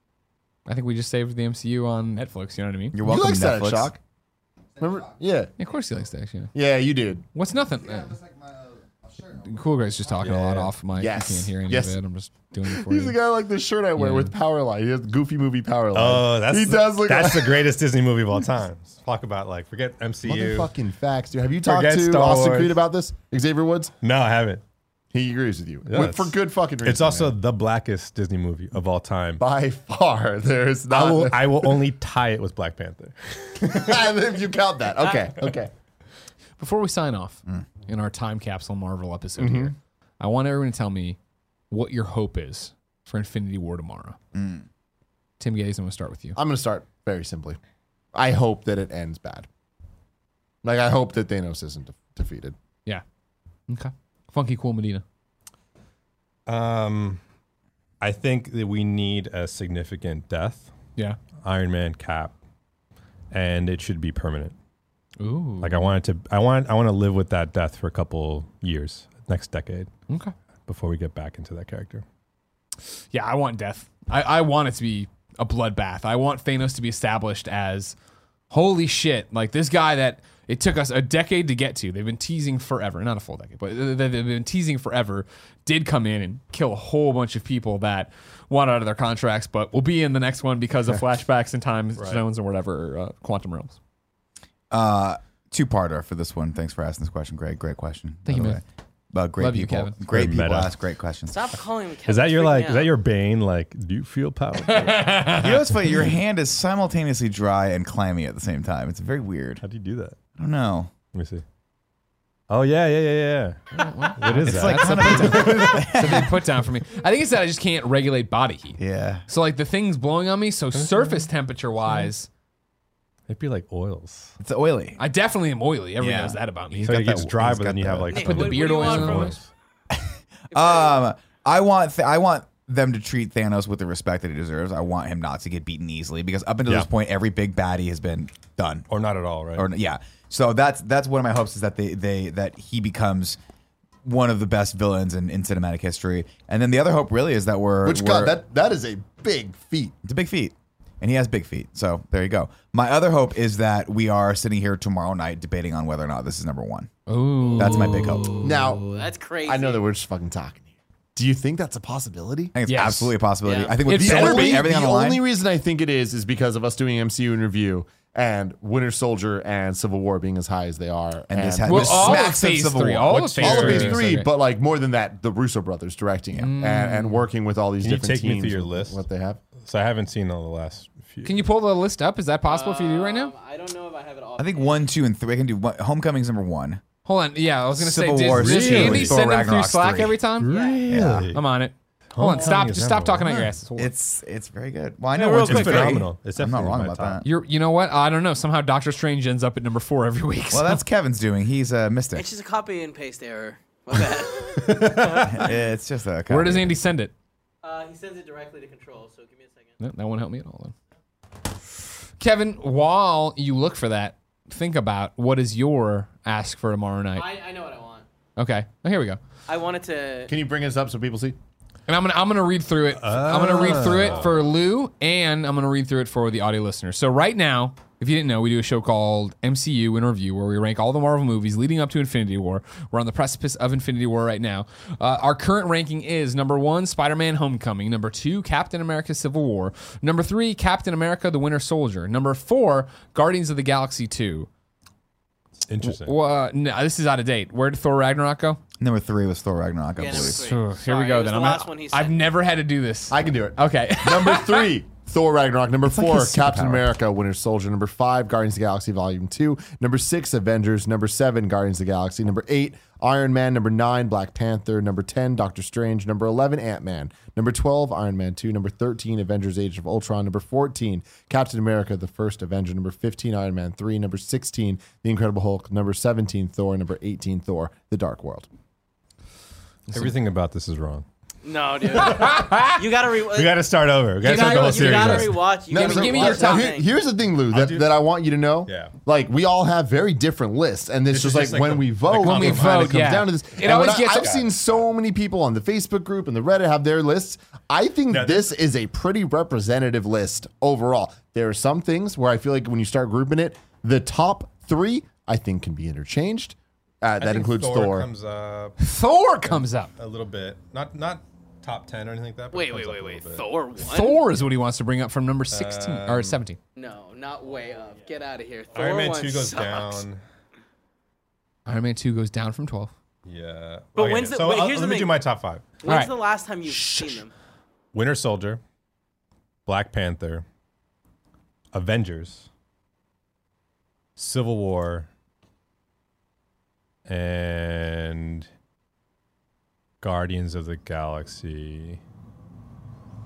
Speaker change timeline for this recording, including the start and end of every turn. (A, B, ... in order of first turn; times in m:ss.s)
0:00.7-0:03.0 A
0:02.9-0:03.9 B
0:03.0-0:04.0 C
0:04.8-0:05.5 C
0:05.6-0:06.5 A
0:06.5-0:07.2 C
0:07.3-0:08.2 A
0:09.3-0:13.2 A
0:10.2-0:10.7 D
0:10.9-0:12.0 C
0:12.6-0:17.7 C
0:14.0-0:14.3 A
0:15.9-0:20.7 D
0:20.2-0:23.9 C
0:21.6-0:22.8 D
0:24.0-0:24.6 D
0:25.1-0:27.4 C
0:25.8-0:29.4 D
0:29.4-0:31.8 C
0:30.9-0:33.9 D
0:33.6-0:35.7 C
0:35.0-0:35.3 E
0:36.6-0:41.2 A
0:39.4-0:39.7 C
0:41.7-0:44.2 A
0:44.3-0:44.6 B
0:45.4-0:46.4 A
0:46.4-0:47.6 C
0:48.1-0:49.5 C
0:50.6-0:52.6 C
0:53.7-0:55.0 A
0:56.5-0:57.2 D
0:58.0-1:00.7 D
1:01.4-1:02.3 D
1:03.3-1:04.5 D
1:05.2-1:05.9 A
1:05.6-1:09.9 D
1:10.7-1:12.0 D
1:13.1-1:18.0 A
1:18.5-1:33.8 A
1:32.0-1:32.2 D
1:34.7-1:41.5 B
1:38.2-1:38.6 A
1:39.4-1:39.9 A
1:40.1-1:40.8 D
1:41.3-1:42.9 E
1:42.0-1:45.5 D
1:44.6-1:45.5 A
1:45.3-1:49.6 B
1:49.6-1:50.2 D
1:50.4-1:50.9 B
1:51.1-1:51.4 D
1:52.5-1:53.6 D
1:53.7-2:02.3 A
1:54.2-1:55.9 D
1:54.2-1:56.4 B
1:58.8-1:59.2 B
2:00.7-2:01.2 D
2:03.3-2:04.4 D
2:04.4-2:05.0 B
2:05.0-2:06.9 A
2:06.0-2:08.4 B
2:06.8-2:09.5 D
2:08.1-2:09.3 E
2:08.2-2:09.4 A
2:09.9-2:18.8 B
2:10.5-2:11.0 E
2:18.9-2:19.7 D
2:19.5-2:23.4 B
2:24.0-2:28.4 B
2:27.8-2:29.9 C
2:30.0-2:36.9 B
2:37.1-2:38.3 A
2:37.5-2:38.4 B
2:38.4-2:38.8 C
2:38.8-2:39.8 E
2:39.4-2:42.5 C
2:42.5-2:45.2 B
2:42.6-2:43.1 A
2:43.4-2:43.8 E
2:43.8-2:44.6 A
2:43.9-2:52.2 C
2:51.3-2:53.2 B
2:51.6-2:54.3 A
2:53.1-2:54.0 D
2:53.4-2:59.4 C
2:56.3-2:57.2 A
2:57.8-2:59.0 D
2:59.6-3:01.4 D
3:01.2-3:03.3 A
3:02.4-3:04.8 E
3:04.4-3:06.8 B
3:07.0-3:10.5 A
3:07.7-3:10.3 B
3:08.3-3:09.2 D
3:10.4-3:11.4 D
3:10.4-3:10.9 E
3:10.9-3:11.3 B
3:11.3-3:13.9 A
3:12.1-3:13.2 D
3:13.2-3:17.3 B
3:15.1-3:17.2 D
3:17.2-3:20.8 A
3:20.5-3:22.3 B
3:22.1-3:25.5 E
3:24.9-3:26.8 B
3:26.3-3:27.1 A
3:27.6-3:29.8 E
3:29.8-3:30.7 A
3:32.2-3:37.3 A
3:37.1-3:38.0 E
3:38.4-3:39.2 A
3:39.5-3:40.3 E
3:40.3-3:41.4 C
3:41.9-4:04.5 A
3:43.0-3:44.4 D
4:05.6-4:06.1 D
4:05.8-4:08.6 A
4:08.8-4:10.4 B
4:10.0-4:12.2 E
4:10.1-4:14.7 A
4:13.1-4:38.5 C
4:15.9-4:16.8 B
4:39.9-4:40.1 A
4:39.9-4:41.0 D
4:41.4-4:43.6 E
4:41.9-4:42.8 A
4:43.1-4:45.4 D
4:44.2-4:46.9 E
4:44.2-4:46.7 A
4:45.7-5:08.1 C
4:47.5-4:48.0 D
4:48.7-4:48.9 D
4:51.1-4:54.8 D
4:52.1-4:54.3 A
4:58.1-4:58.5 D
5:07.2-5:08.8 D
5:08.8-5:09.9 A
5:09.5-5:13.4 D
5:12.5-5:14.2 E
5:13.8-5:16.6 A
5:15.5-5:16.4 D
5:16.8-5:20.0 E
5:18.7-5:20.2 D
5:21.6-5:22.9 A
5:23.2-5:25.7 D
5:23.9-5:25.2 E
5:25.8-5:27.3 E
5:25.8-5:26.1 A
5:26.6-5:27.2 C
5:27.9-5:28.6 D
5:29.6-5:30.4 D
5:31.7-5:32.5 D
5:34.2-5:35.1 D
5:37.0-5:38.5 D
5:40.0-5:42.0 D